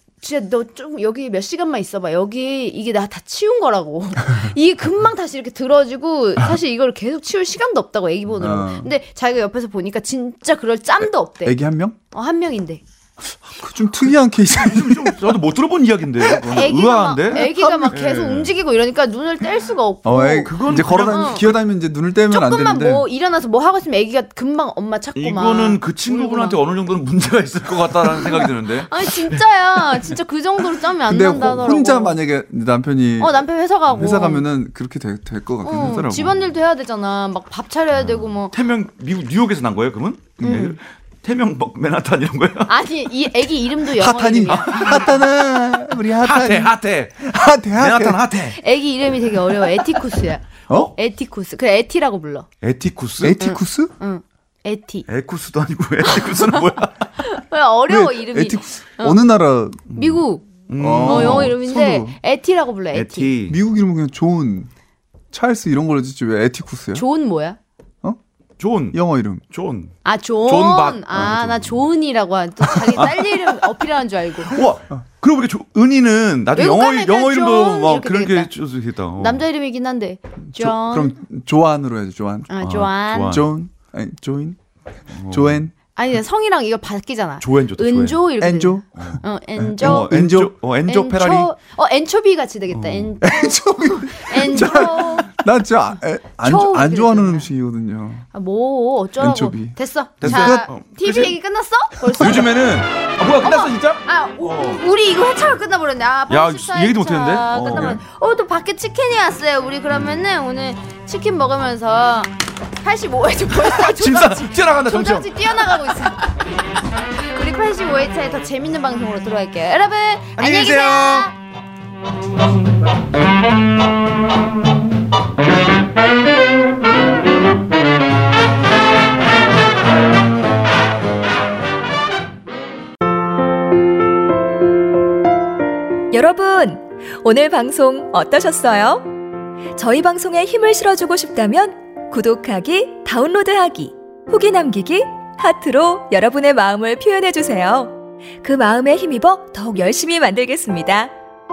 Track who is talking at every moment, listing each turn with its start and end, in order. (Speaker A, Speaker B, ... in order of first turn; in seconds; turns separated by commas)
Speaker A: 0.2-12.8, Speaker B: 8.3-8.9, Speaker B: 11.0-12.0, Speaker B: 13.2-15.4, Speaker C: 14.5-18.5, Speaker B: 16.2-16.6, Speaker A: 16.5-21.5, Speaker B: 17.3-18.0, Speaker B: 20.0-23.1, Speaker C: 20.4-21.6, Speaker A: 22.3-26.6, Speaker C: 25.1-30.1, Speaker A: 28.9-32.2, Speaker B: 31.1-36.3, Speaker C: 31.4-31.7, Speaker A: 33.2-34.4, Speaker C: 33.9-34.2, Speaker A: 35.6-38.6, Speaker C: 35.7-36.5, Speaker C: 38.0-42.7, Speaker B: 40.4-40.8, Speaker A: 40.4-40.8, Speaker A: 42.7-45.2, Speaker B: 43.9-48.2, Speaker C: 44.5-45.2, Speaker C: 45.9-48.6, Speaker A: 48.5-52.5, Speaker C: 52.6-53.4, Speaker B: 53.2-53.9, Speaker A: 53.4-55.1, Speaker C: 55.1-57.1, Speaker A: 56.0-56.6, Speaker A: 57.2-59.2, Speaker B: 57.9-59.9, Speaker A: 59.9-60.5, Speaker C: 59.9-61.5, Speaker B: 60.8-62.2, Speaker A: 61.0-63.3, Speaker C: 62.9-63.6, Speaker B: 63.5-64.7, Speaker B: 65.3-67.0, Speaker A: 66.9-67.6, Speaker C: 68.6-69.0, Speaker B: 68.9-69.4, Speaker C: 69.5-71.9, Speaker A: 70.0-74.6, Speaker C: 72.8-73.6, Speaker C: 74.5-79.5, Speaker A: 76.5-78.5, Speaker A: 79.1-81.2, Speaker B: 80.5-84.6, Speaker A: 82.5-83.4, Speaker C: 82.6-83.5, Speaker C: 85.1-85.7, Speaker B: 85.2-85.7, Speaker A: 85.9-90.1, Speaker C: 87.4-88.2, Speaker B: 88.4-90.5, Speaker C: 88.9-89.2, Speaker C: 89.8-91.5, Speaker A: 90.8-95.4, Speaker C: 92.7-93.2, Speaker B: 93.2-98.3, Speaker A: 96.4-97.5, Speaker A: 98.3-102.6, Speaker B: 99.2-100.7, Speaker C: 100.2-101.3, Speaker B: 102.1-102.4, Speaker C: 102.2-104.8, Speaker A: 103.4-116.3, Speaker C: 106.3-108.0, Speaker C: 109.9-110.2, Speaker C: 113.5-115.3, Speaker A: 117.3-121.3, Speaker C: 120.4-121.3, Speaker D: 136.1-139.2, Speaker D: 139.7-151.1